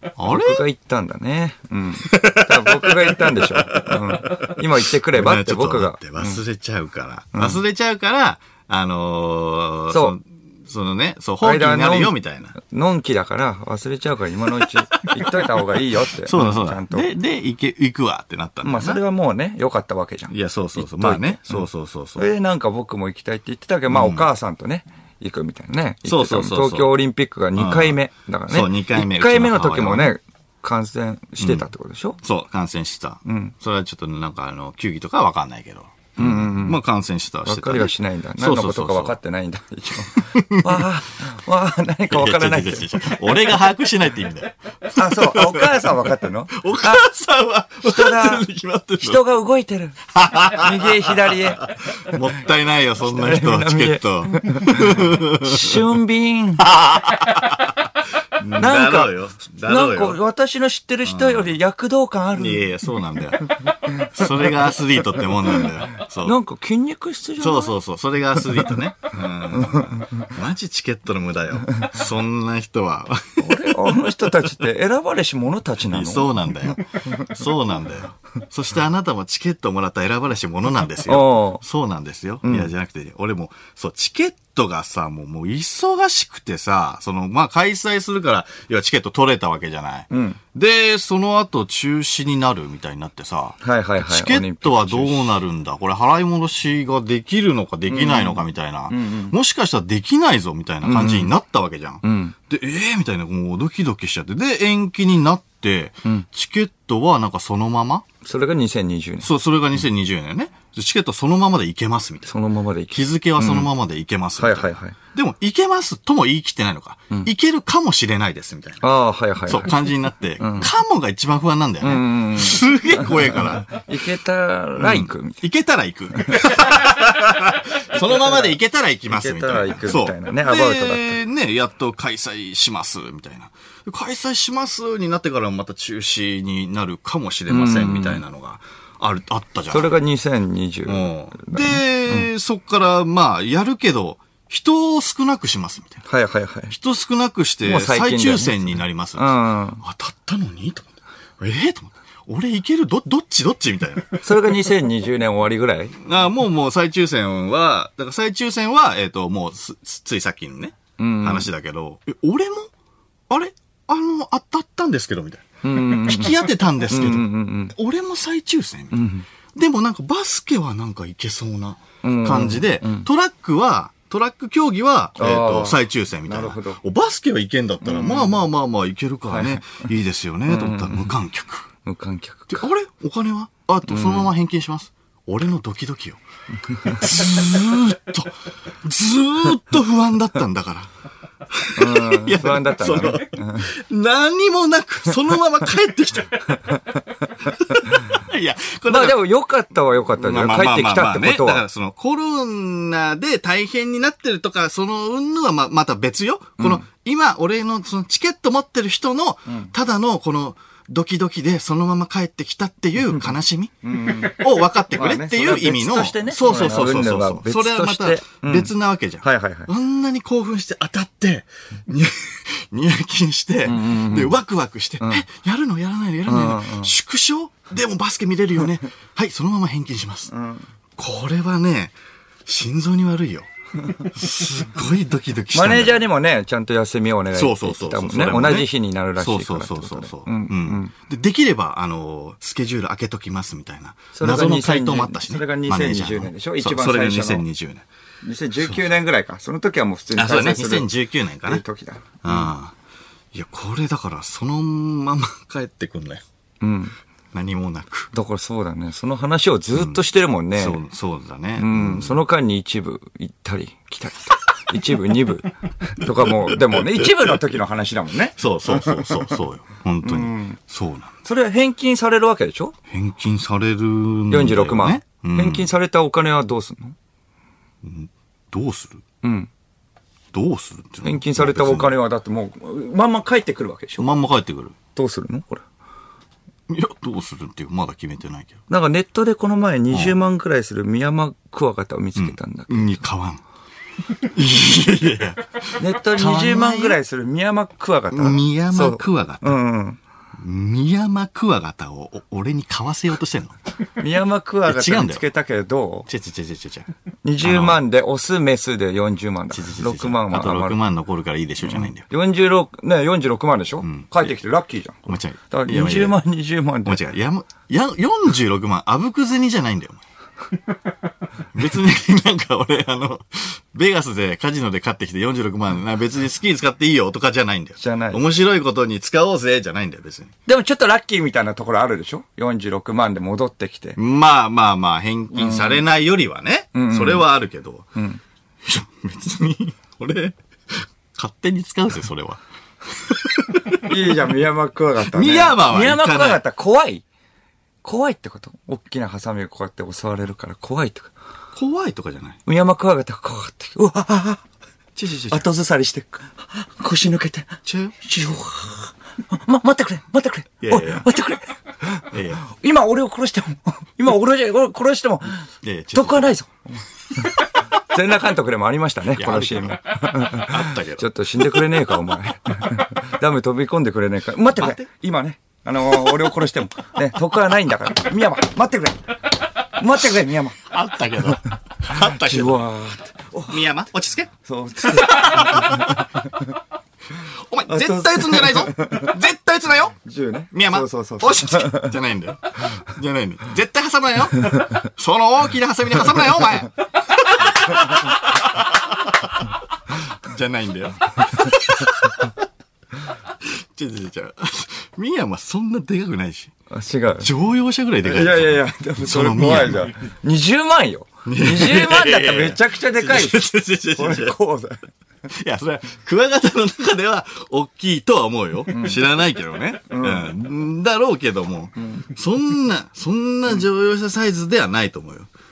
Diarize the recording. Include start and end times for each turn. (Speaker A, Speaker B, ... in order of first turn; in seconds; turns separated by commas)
Speaker A: 0.1-0.6, Speaker B: 0.3-6.4, Speaker A: 2.0-12.5, Speaker B: 7.3-7.6, Speaker B: 9.9-10.2, Speaker B: 11.4-17.1, Speaker A: 14.6-19.0, Speaker B: 18.6-32.2, Speaker A: 20.3-22.3, Speaker A: 23.9-24.3, Speaker A: 26.0-26.9, Speaker A: 27.5-28.0, Speaker A: 28.5-30.1, Speaker A: 31.4-31.6, Speaker A: 32.2-39.1, Speaker B: 33.2-33.5, Speaker B: 36.2-36.8, Speaker B: 37.4-43.6, Speaker A: 40.1-40.9, Speaker A: 42.1-49.2, Speaker B: 44.9-47.0, Speaker B: 47.8-48.5, Speaker B: 49.0-51.7, Speaker A: 50.1-55.9, Speaker B: 53.0-56.7, Speaker A: 56.6-60.2, Speaker B: 58.4-62.7, Speaker A: 61.0-61.5, Speaker A: 62.3-66.4, Speaker B: 63.9-64.3, Speaker B: 66.2-67.7, Speaker A: 67.4-74.1, Speaker B: 69.6-69.9, Speaker B: 73.4-77.3, Speaker A: 75.8-108.0, Speaker B: 81.0-81.6, Speaker B: 82.4-82.7, Speaker B: 90.1-90.4, Speaker B: 93.6-95.3, Speaker B: 97.9-99.4, Speaker B: 100.8-101.3, Speaker B: 102.0-102.3, Speaker B: 108.2-109.3, Speaker A: 109.2-112.3, Speaker B: 112.3-113.7, Speaker A: 112.9-118.9, Speaker B: 114.4-115.0, Speaker B: 118.8-119.8, Speaker A: 119.5-123.7, Speaker B: 120.4-120.7, Speaker B: 121.8-125.4, Speaker A: 124.8-139.9, Speaker B: 126.2-126.5, Speaker B: 127.9-128.6, Speaker B: 129.1-131.2, Speaker B: 137.5-138.2, Speaker B: 139.7-142.3, Speaker A: 140.9-146.0, Speaker B: 146.1-146.7, Speaker A: 146.7-154.7, Speaker B: 147.6-149.8, Speaker B: 154.2-156.0, Speaker A: 156.0-162.7, Speaker B: 161.0-161.5, Speaker A: 163.3-169.0, Speaker B: 165.6-167.7, Speaker B: 168.9-169.3, Speaker A: 169.5-181.7, Speaker B: 172.0-173.1, Speaker B: 175.2-176.8, Speaker B: 177.8-178.4, Speaker B: 179.3-179.6, Speaker B: 180.5-181.1, Speaker B: 181.8-182.7, Speaker A: 182.5-190.9, Speaker B: 183.9-184.3, Speaker A: 191.5-199.2, Speaker B: 191.8-193.7, Speaker B: 198.9-201.6, Speaker A: 200.2-230.3, Speaker B: 206.6-206.8, Speaker B: 213.8-219.7, Speaker B: 223.7-224.4, Speaker B: 226.2-226.9, Speaker B: 230.3-230.7, Speaker A: 231.0-231.9, Speaker A: 232.4-236.1, Speaker B: 235.5-240.9, Speaker A: 237.3-247.8, Speaker B: 244.1-247.4, Speaker B: 248.2-250.9, Speaker A: 250.2-251.6, Speaker B: 251.4-252.5, Speaker A: 252.2-252.7, Speaker A: 253.3-256.2, Speaker B: 256.6-256.9, Speaker A: 257.3-258.1, Speaker B: 258.1-260.8, Speaker A: 259.7-260.0, Speaker A: 260.5-262.2, Speaker B: 261.6-269.4, Speaker A: 266.7-267.3, Speaker A: 268.4-271.1, Speaker B: 270.0-270.6, Speaker B: 271.2-272.7, Speaker A: 272.9-275.7, Speaker B: 274.3-276.9, Speaker A: 277.8-279.0, Speaker B: 279.2-279.5, Speaker A: 280.3-282.0, Speaker B: 281.0-284.1, Speaker A: 284.0-284.7, Speaker B: 284.9-285.6, Speaker A: 286.7-288.6, Speaker B: 288.7-293.0, Speaker A: 289.9-290.2, Speaker A: 292.1-293.4, Speaker A: 294.1-297.0, Speaker B: 295.8-300.0, Speaker A: 298.1-299.6, Speaker A: 300.4-303.6, Speaker B: 304.0-306.1, Speaker A: 304.6-305.2, Speaker A: 306.1-306.9, Speaker B: 307.2-310.8, Speaker A: 307.4-307.8, Speaker A: 309.5-312.1, Speaker B: 311.6-317.0, Speaker A: 313.8-314.3, Speaker A: 315.1-316.2, Speaker A: 316.8-320.0, Speaker A: 321.5-330.3, Speaker B: 327.8-328.2, Speaker B: 330.4-334.0, Speaker A: 334.0-337.9, Speaker B: 335.3-335.8, Speaker B: 336.7-337.2, Speaker B: 337.9-338.2, Speaker A: 338.6-344.1, Speaker B: 343.8-347.0, Speaker A: 345.0-346.4, Speaker B: 347.8-351.1, Speaker A: 351.5-352.4, Speaker B: 352.4-354.4, Speaker A: 354.9-355.5, Speaker B: 355.3-380.6, Speaker A: 357.6-357.9, Speaker A: 360.6-361.1, Speaker A: 362.1-362.4, Speaker A: 365.6-366.3, Speaker A: 369.1-371.7, Speaker A: 374.6-374.9, Speaker A: 380.6-382.6, Speaker B: 381.9-383.6, Speaker A: 383.5-386.1, Speaker B: 384.4-386.5, Speaker A: 387.1-390.0, Speaker B: 387.7-389.1, Speaker B: 390.0-392.0, Speaker A: 390.5-402.4, Speaker A: 403.4-406.5, Speaker B: 406.7-407.3, Speaker A: 407.2-410.0, Speaker B: 408.0-414.9, Speaker A: 411.2-414.4, Speaker A: 415.3-425.3, Speaker B: 418.7-419.0, Speaker B: 419.9-420.3